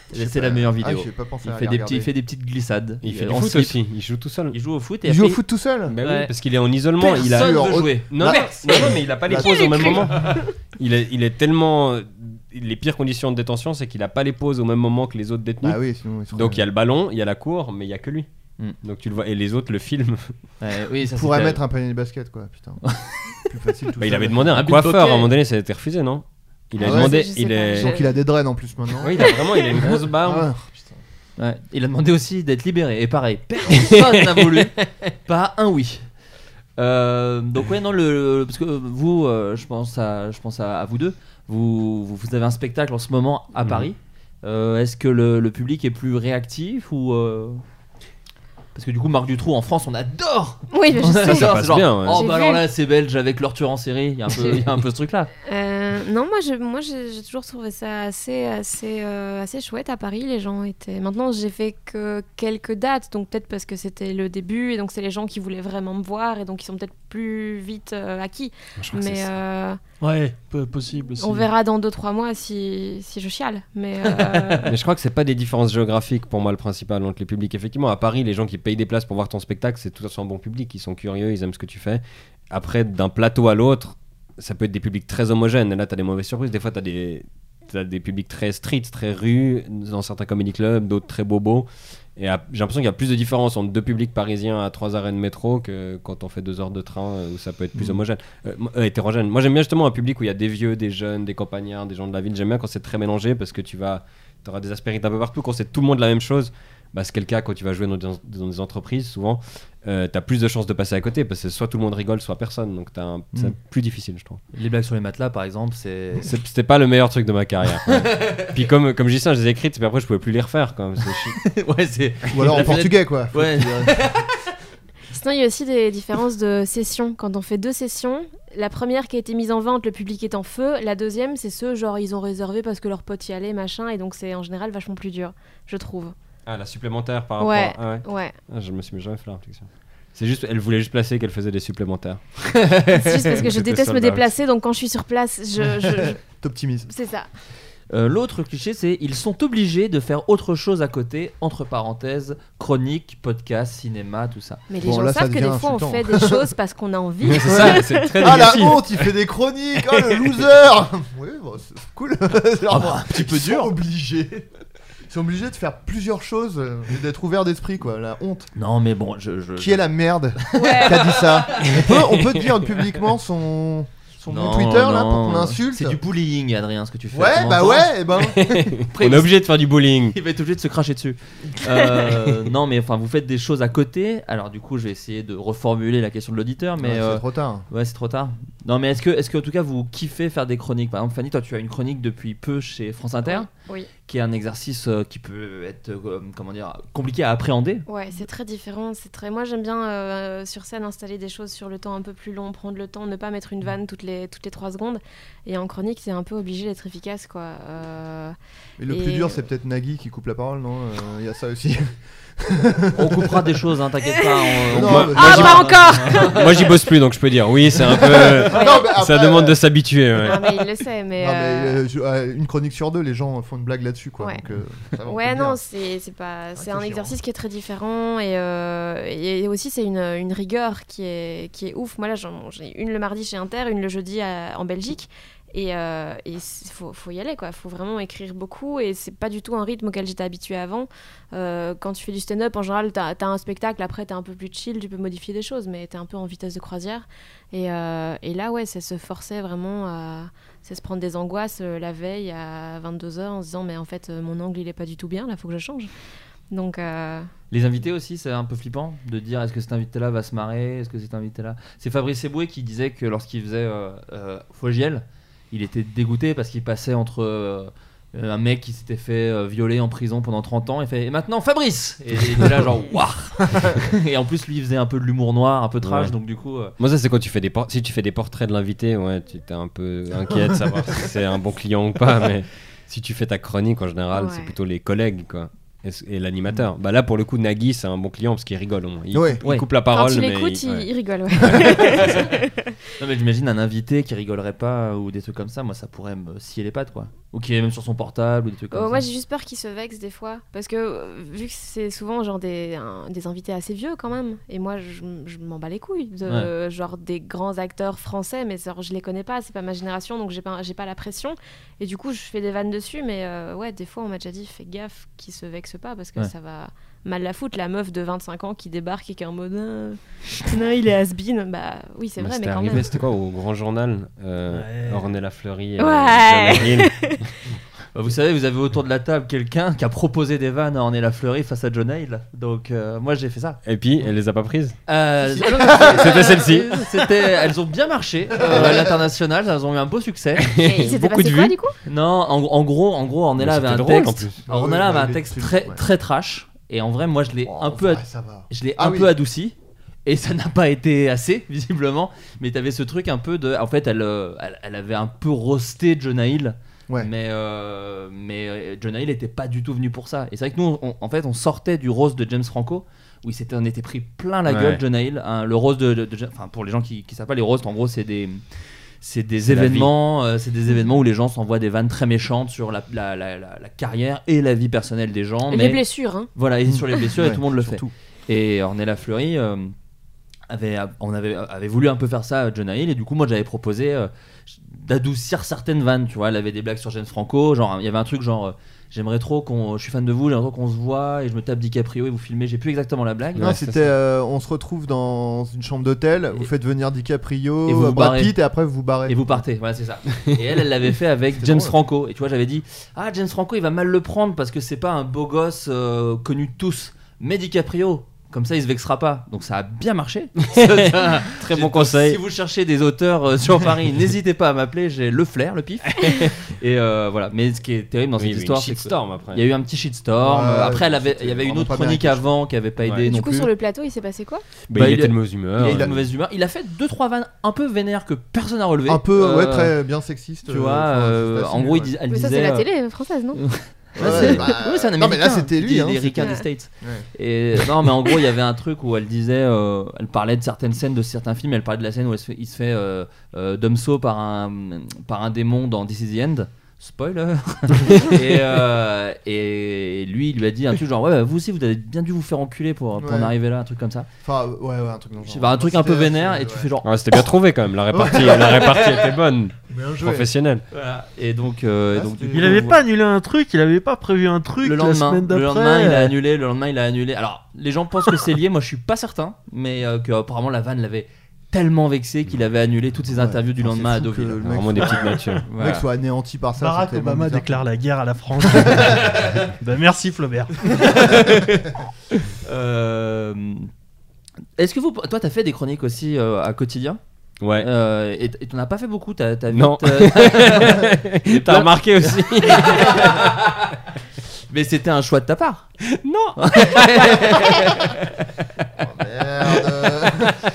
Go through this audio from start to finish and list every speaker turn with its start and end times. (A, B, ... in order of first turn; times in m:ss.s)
0:00.1-0:02.1 A
0:00.1-0:03.8 B
0:03.0-0:04.6 C
0:04.5-0:05.4 B
0:05.0-0:06.0 A
0:05.9-0:15.8 C
0:06.0-0:06.3 B
0:07.0-0:09.0 B
0:07.2-0:10.1 A
0:09.4-0:10.5 D
0:15.6-0:16.6 A
0:16.3-0:18.3 C
0:18.8-0:20.3 C
0:20.6-0:21.6 B
0:21.1-0:22.8 A
0:22.8-0:23.4 B
0:23.4-0:24.6 A
0:24.0-0:28.1 C
0:24.5-0:25.3 B
0:26.8-0:27.2 A
0:26.8-0:28.1 D
0:27.8-0:29.4 A
0:29.0-0:30.5 C
0:29.2-0:29.7 D
0:30.0-0:31.0 A
0:31.4-0:36.1 B
0:33.7-0:34.7 C
0:36.8-0:47.6 B
0:43.6-0:43.9 C
0:48.8-0:55.3 B
0:50.7-0:51.5 D
0:51.2-0:52.3 C
0:52.1-0:52.6 D
0:55.5-1:09.8 D
1:08.8-1:09.4 C
1:10.0-1:11.5 E
1:11.2-1:14.7 D
1:14.7-1:54.4 C
1:54.5-1:56.3 B
1:56.2-2:01.4 C
1:57.9-1:58.5 B
2:01.4-2:04.4 B
2:02.3-2:04.0 A
2:05.1-2:16.2 D
2:16.5-2:24.3 C
2:17.4-2:18.4 D
2:22.9-2:26.2 D
2:25.8-2:26.9 A
2:26.9-2:27.3 D
2:27.9-2:34.6 B
2:34.7-2:38.5 D
2:34.8-2:36.5 A
2:37.2-2:39.1 C
2:37.4-2:44.5 A
2:42.7-2:43.7 B
2:45.1-2:48.5 A
2:48.6-2:49.9 B
2:49.6-2:56.0 A
2:50.5-2:51.9 B
2:50.5-2:51.3 D
2:54.2-2:59.3 B
2:57.1-2:58.6 A
2:58.2-3:00.2 C
3:00.1-3:13.5 B
3:06.8-3:07.7 A
3:13.3-3:13.9 D
3:14.1-3:17.8 B
3:17.9-3:28.4 D
3:28.8-3:33.5 A
3:28.9-3:29.4 D
3:33.0-3:36.6 B
3:34.7-3:35.8 A
3:34.8-3:36.8 D
3:34.8-3:40.6 C
3:37.8-3:39.6 A
3:38.5-3:38.9 D
3:40.2-3:41.8 D
3:41.2-3:45.6 A
3:45.1-4:15.9 D
3:46.6-3:47.2 A
4:16.5-4:17.3 D
4:17.5-4:36.7 B
4:35.8-4:36.1 C
4:36.8-4:50.9 C
4:44.1-4:44.5 D
4:49.1-4:49.4 A
4:49.9-4:52.7 D
4:51.4-4:52.3 C
4:53.0-4:59.0 B
4:58.7-5:22.9 D
5:22.2-5:27.2 C
5:24.5-5:25.0 E
5:25.8-5:27.2 D
5:27.9-5:33.6 B
5:33.6-5:34.8 C
5:34.9-5:40.5 B
5:35.3-5:36.1 A
5:35.7-5:36.8 C
5:38.3-5:39.0 A
5:40.4-5:41.6 C
5:40.6-5:41.8 D
5:41.9-6:15.8 B
5:43.4-5:44.4 C
5:44.4-5:45.8 A
5:47.4-5:49.1 A
6:04.5-6:04.8 C
6:09.4-6:09.9 C
6:15.5-6:16.3 D
6:16.4-6:19.7 B
6:16.7-6:17.9 A
6:20.5-6:33.5 B
6:33.4-6:33.8 C
6:33.4-6:39.3 A
6:37.6-6:38.4 B
6:39.0-7:03.5 B
6:41.4-6:41.8 A
6:50.5-6:52.2 C
6:58.2-6:59.4 C
7:00.2-7:02.3 A
7:03.0-7:04.4 D
7:04.7-7:06.0 C
7:04.7-7:09.8 B
7:08.9-7:12.0 A
7:10.5-7:12.7 B
7:12.1-7:13.4 D
7:13.4-7:34.1 B
7:14.0-7:17.1 A
7:14.1-7:14.4 D
7:33.0-7:33.3 A
7:34.2-7:36.7 A
7:35.2-7:36.9 B
7:36.8-7:40.6 C
7:37.9-7:38.7 A
7:38.6-7:39.0 B
7:39.7-7:40.3 A
7:40.7-7:42.8 B
7:41.9-7:42.6 A
7:42.3-7:46.1 E
7:44.6-7:54.9 B
7:53.1-7:57.7 A
7:54.4-7:55.4 C
7:55.4-7:55.9 B
7:56.6-8:01.4 E
7:58.5-7:59.0 A
8:00.7-8:01.4 B
8:02.4-8:03.7 B
8:04.6-8:07.0 B
8:07.4-8:07.7 C
8:07.6-8:13.7 B
8:09.5-8:13.3 C
8:14.5-8:15.7 B
8:15.9-8:18.0 C
8:16.4-8:17.9 B
8:18.8-8:20.4 A